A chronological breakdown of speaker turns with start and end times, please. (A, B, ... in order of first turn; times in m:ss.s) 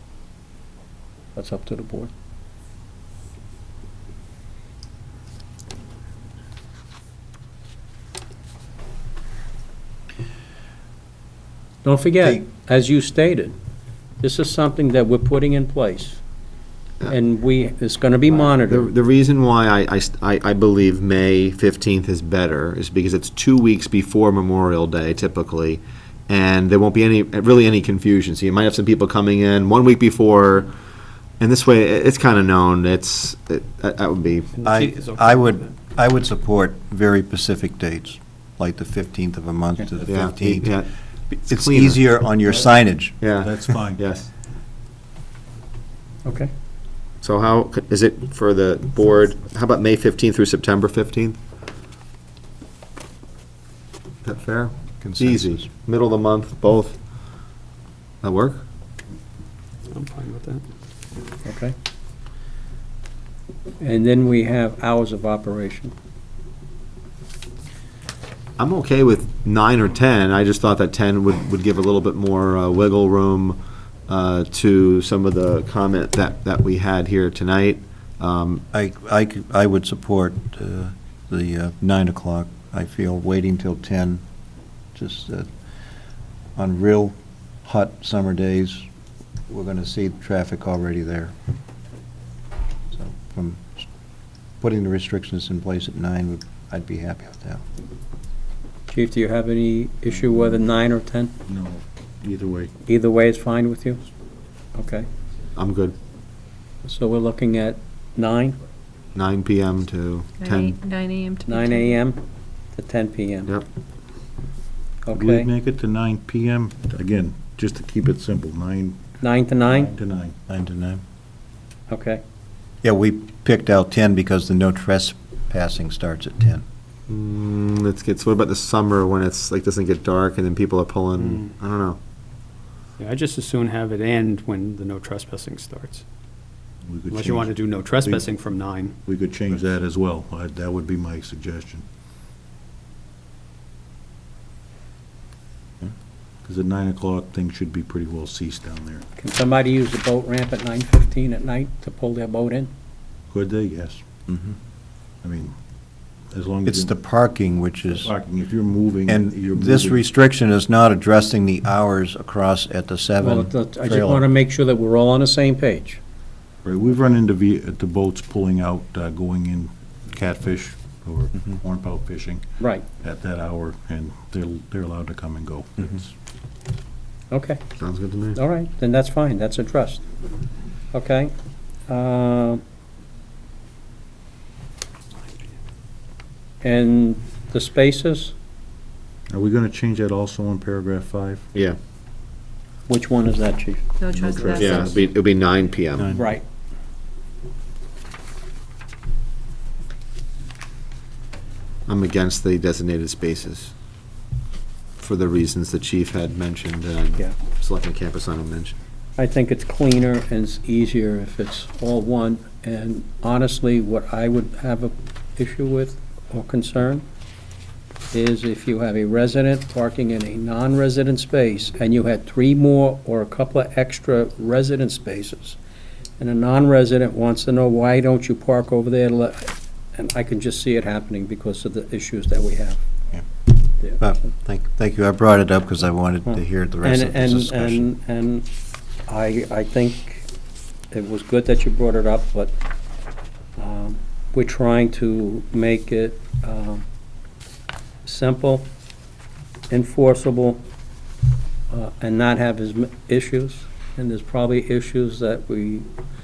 0:01.3-0:02.1 A
0:11.8-0:13.5 A
0:14.2-0:16.2 A
0:17.0-0:18.9 A
0:18.3-0:30.7 B
0:31.4-0:34.6 B
0:34.5-0:35.7 C
0:34.6-0:40.8 D
0:40.1-0:40.9 B
0:41.3-0:43.2 D
0:41.5-0:42.0 B
0:43.2-0:44.3 B
0:43.4-0:44.0 E
0:46.2-0:46.5 A
0:47.2-0:51.4 B
0:54.2-0:57.5 B
0:55.0-0:55.7 D
0:58.2-0:58.6 B
0:59.9-1:00.6 C
1:01.4-1:01.7 A
1:03.8-1:05.9 A
1:08.6-1:18.6 B
1:18.7-1:24.2 D
1:24.9-1:25.5 D
1:26.6-1:27.1 D
1:27.6-1:28.8 D
1:29.5-1:31.3 D
1:32.9-1:33.8 D
1:34.6-1:37.6 D
1:38.9-1:41.3 A
1:41.4-1:42.7 E
1:42.9-1:44.0 A
1:44.7-1:45.1 A
1:45.5-1:46.0 B
1:46.8-1:48.6 A
1:49.1-1:50.7 B
1:50.4-1:51.9 F
1:51.5-1:52.2 A
1:52.7-1:53.5 A
1:55.0-1:55.5 A
1:55.1-1:59.1 E
1:59.2-1:59.9 A
1:59.7-2:00.4 E
2:00.5-2:01.0 D
2:01.9-2:02.2 A
2:02.8-2:06.6 D
2:07.1-2:12.0 B
2:11.2-2:11.5 C
2:13.0-2:16.0 C
2:16.8-2:18.3 E
2:17.1-2:19.0 C
2:19.0-2:21.8 E
2:26.4-2:29.0 E
2:29.2-2:32.7 A
2:33.3-2:34.4 E
2:35.2-2:35.5 E
2:36.3-2:36.9 E
2:36.6-2:38.1 D
2:37.9-2:40.0 E
2:39.1-2:44.2 D
2:43.2-2:46.0 A
2:46.6-2:56.1 E
2:52.6-2:52.8 A
2:57.3-2:57.6 A
2:57.8-2:58.4 B
2:58.3-3:00.0 A
3:00.9-3:01.3 A
3:01.9-3:02.6 A
3:06.6-3:08.3 A
3:09.3-3:11.4 E
3:12.9-3:13.8 A
3:14.0-3:15.0 F
3:14.1-3:15.1 E
3:14.5-3:16.2 B
3:16.1-3:16.4 A
3:21.9-3:23.7 B
3:25.0-3:28.8 B
3:29.2-3:37.0 A
3:38.1-3:45.6 A
3:46.2-3:52.8 A
3:54.0-3:57.9 D
3:56.3-3:58.4 A
3:59.1-4:00.3 A
4:00.9-4:02.5 A
4:03.6-4:06.8 A
4:08.0-4:08.7 A
4:09.7-4:10.6 A
4:11.7-4:15.9 A